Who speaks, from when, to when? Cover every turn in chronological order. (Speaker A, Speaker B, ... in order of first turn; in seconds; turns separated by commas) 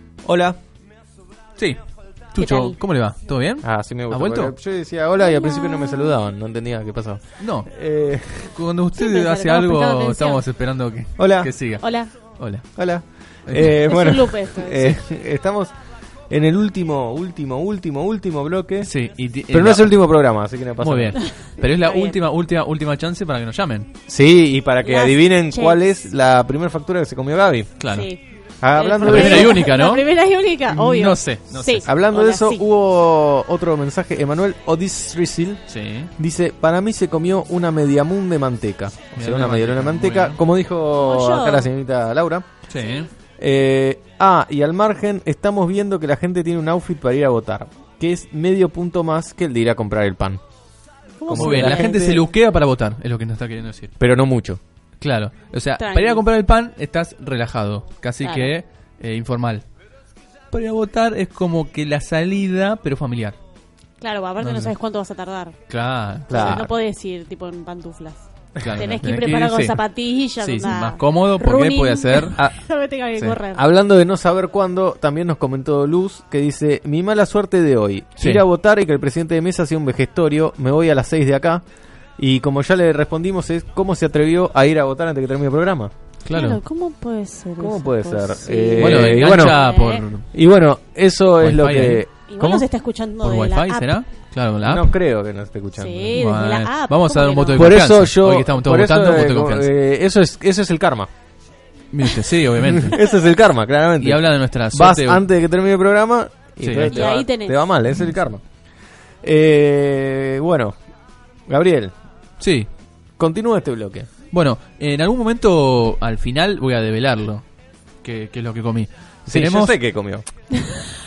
Speaker A: 0.2-0.6, Speaker B: 2.3-4.5, Speaker C: 2.4-2.8, Speaker A: 3.6-8.5, Speaker C: 5.2-6.2, Speaker B: 7.4-7.7, Speaker B: 8.5-13.9, Speaker C: 8.9-10.4, Speaker A: 11.2-11.5, Speaker C: 11.8-12.1, Speaker A: 12.7-15.7, Speaker C: 13.8-15.0, Speaker A: 16.3-18.9, Speaker B: 18.8-19.9, Speaker A: 19.5-21.2, Speaker B: 20.8-23.9, Speaker C: 21.2-22.2, Speaker A: 24.1-27.7, Speaker C: 24.8-25.8, Speaker B: 27.8-28.1, Speaker C: 27.9-32.6, Speaker A: 28.6-29.7, Speaker B: 29.0-30.1, Speaker B: 30.7-31.9, Speaker A: 31.9-35.6, Speaker B: 35.7-36.1, Speaker A: 36.2-42.5, Speaker B: 39.1-40.4, Speaker C: 41.0-41.7, Speaker B: 42.7-43.1, Speaker A: 43.4-50.4, Speaker C: 51.2-51.9, Speaker B: 51.2-53.9, Speaker A: 51.2-52.2, Speaker A: 54.0-54.6, Speaker B: 55.0-59.6, Speaker C: 55.8-56.2, Speaker C: 58.2-58.5, Speaker B: 60.5-63.4, Speaker C: 64.0-65.6, Speaker B: 64.4-64.7, Speaker B: 65.7-66.7, Speaker C: 66.3-73.7, Speaker A: 66.3-66.7, Speaker B: 68.6-72.6, Speaker A: 73.4-81.6, Speaker B: 78.2-78.4, Speaker A: 82.2-85.9, Speaker B: 86.2-86.6, Speaker C: 86.3-90.1, Speaker A: 87.6-89.6, Speaker B: 88.8-90.2, Speaker A: 90.3-92.1, Speaker B: 91.4-94.9, Speaker C: 92.3-94.0, Speaker A: 94.6-96.2, Speaker C: 95.8-97.8, Speaker B: 96.1-99.7, Speaker A: 97.5-101.1, Speaker B: 101.9-103.0, Speaker A: 102.6-108.4, Speaker B: 104.0-105.2, Speaker B: 106.6-107.1, Speaker C: 106.8-107.6, Speaker A: 109.2-110.8, Speaker A: 111.5-111.9, Speaker B: 112.4-112.7, Speaker A: 113.2-114.1, Speaker B: 114.3-117.4, Speaker B: 118.0-119.8, Speaker A: 119.3-120.2, Speaker C: 120.5-120.9